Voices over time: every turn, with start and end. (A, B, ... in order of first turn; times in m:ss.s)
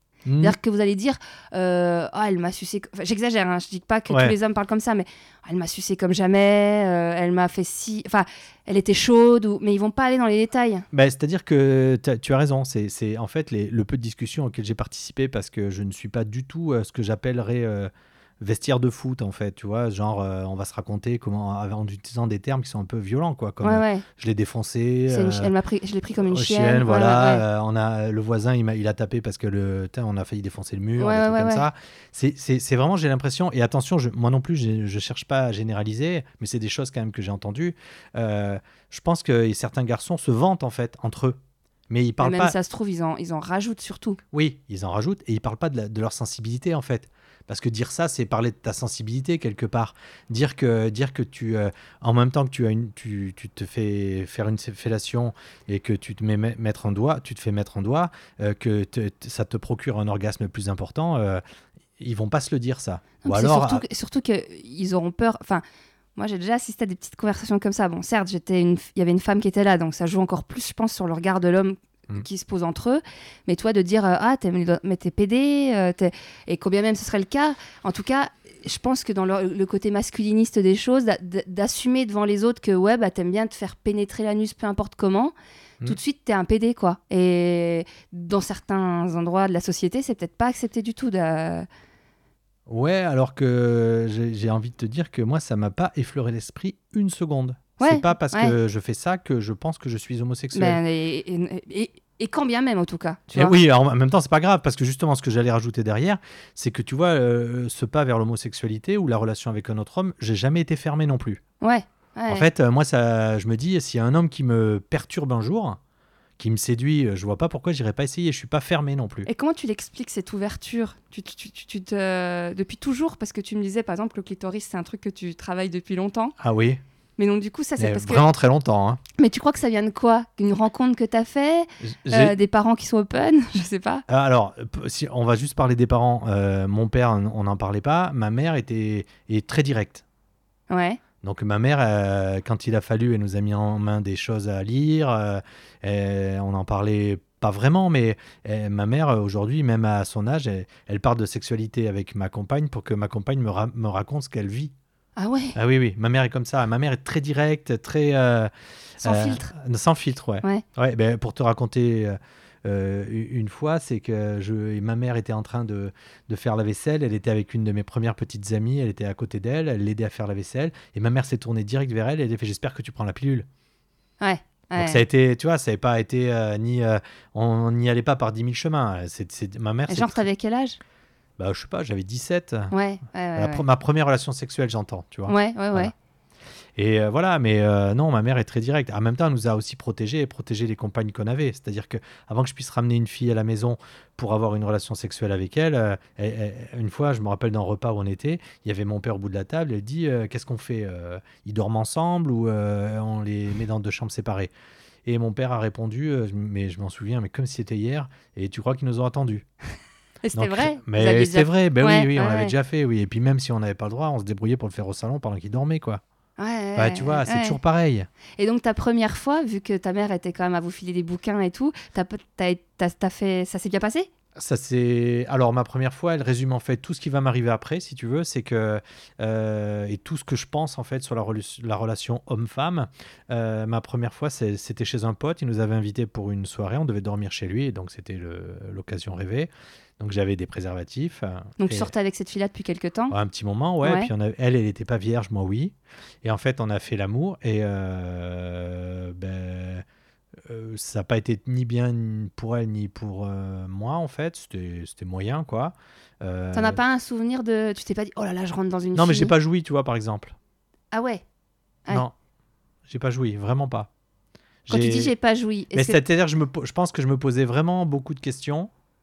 0:00.3-0:00.6 A
0:00.4-0:10.9 B
0:04.1-0:04.4 A
0:10.9-0:25.5 A
0:23.6-0:24.0 B
0:25.1-0:27.4 B
0:26.2-0:42.6 A
0:31.0-0:31.7 B
0:42.2-0:44.2 B
0:44.3-1:01.4 A
1:02.0-1:03.8 A
1:03.2-1:05.6 B
1:06.2-1:31.7 B
1:32.7-1:40.8 A
1:37.8-1:38.6 B
1:40.5-1:43.6 B
1:43.3-1:51.4 A
1:51.6-1:52.5 B
1:52.3-1:55.8 A
1:56.4-1:59.3 A
1:59.3-2:06.3 B
2:06.4-2:06.8 A
2:07.2-2:08.2 B
2:07.8-2:09.0 A
2:09.2-2:14.0 B
2:11.8-2:12.4 A
2:14.1-2:20.0 A
2:20.7-2:21.0 B
2:21.2-2:34.7 A
2:35.2-2:35.6 B
2:35.6-2:53.5 A
2:39.0-2:39.5 B
2:54.2-2:55.0 B
2:54.8-3:00.3 A
2:59.9-3:00.8 B
3:01.4-3:02.7 A
3:02.7-3:03.6 B
3:03.4-3:05.9 A
3:05.3-3:05.9 B
3:06.8-3:24.5 A
3:25.0-3:29.5 A
3:30.2-3:32.5 B
3:30.4-3:36.0 A
3:36.4-3:37.6 B
3:36.8-3:38.1 A
3:38.4-3:44.1 B
3:44.4-4:01.9 A
4:01.6-4:03.2 B
4:03.1-4:09.8 A
4:03.8-4:04.1 B
4:10.4-4:16.8 A
4:16.5-4:19.3 B
4:19.0-4:20.4 A
4:20.9-4:21.2 B
4:22.9-4:23.9 A
4:24.7-4:25.1 A
4:24.7-4:26.0 B
4:25.7-4:28.7 A